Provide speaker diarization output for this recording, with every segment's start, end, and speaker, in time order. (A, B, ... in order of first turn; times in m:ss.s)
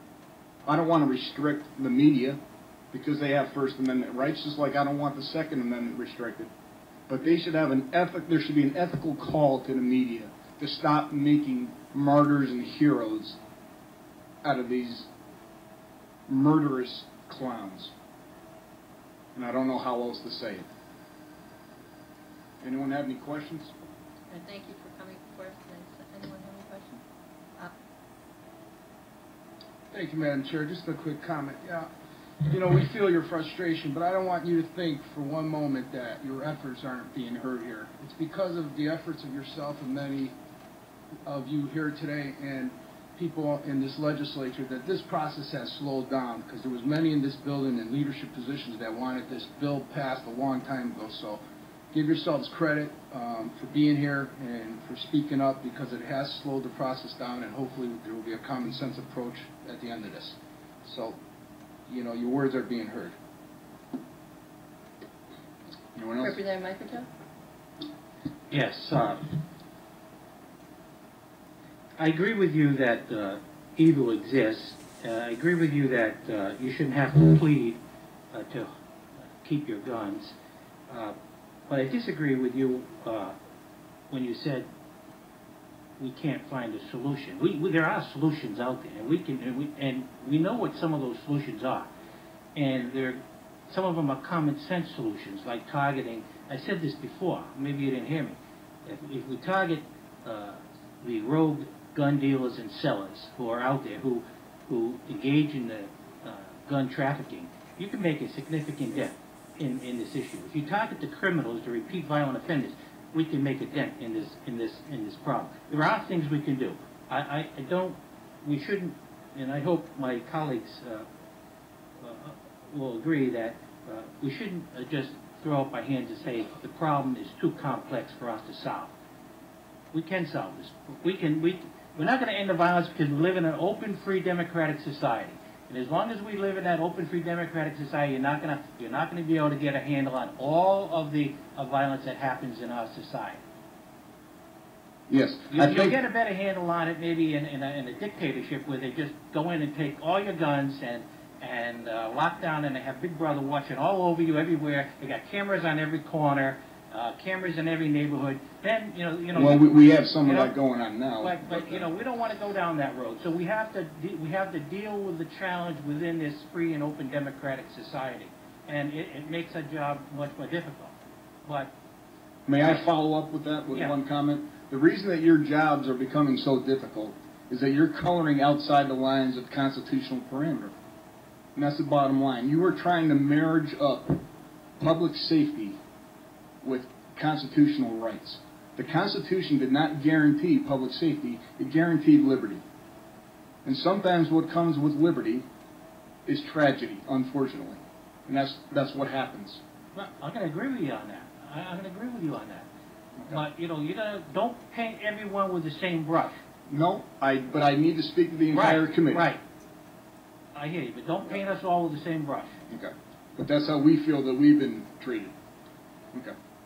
0:00.7-0:02.4 A
0:02.9-0:06.5 A
0:07.1-0:13.4 A
0:14.4-0:15.1 A
0:16.3-0:17.9 A
0:19.4-0:20.7 A
0:22.6-0:23.7 A
0:24.3-0:27.0 B
0:29.9-0:31.9 C
0:32.4-0:40.4 C
0:41.2-0:51.4 C
0:51.9-1:01.2 C
1:01.9-1:03.2 C
1:06.0-1:06.4 A
1:06.2-1:07.1 B
1:08.5-1:09.4 D
1:12.0-1:17.8 D
1:18.3-1:18.7 D
1:19.4-1:20.4 D
1:20.9-1:21.2 D
1:21.7-1:23.4 D
1:24.1-1:24.7 D
1:26.0-1:31.9 D
1:32.6-2:01.1 D
2:02.0-2:08.9 D
2:09.9-2:23.4 D
2:25.1-2:26.0 A
2:25.5-2:39.7 D
2:39.3-2:41.8 A
2:40.2-2:40.5 D
2:41.2-2:51.7 D
2:52.5-3:00.7 A
3:01.6-3:04.2 A
3:04.8-3:05.8 A
3:06.6-3:12.6 A
3:13.6-3:15.4 A
3:16.3-3:19.6 A
3:20.0-3:22.7 D
3:23.3-3:26.4 D
3:26.7-3:29.3 A
3:28.5-3:29.4 D
3:30.6-3:32.6 D
3:32.7-3:35.4 A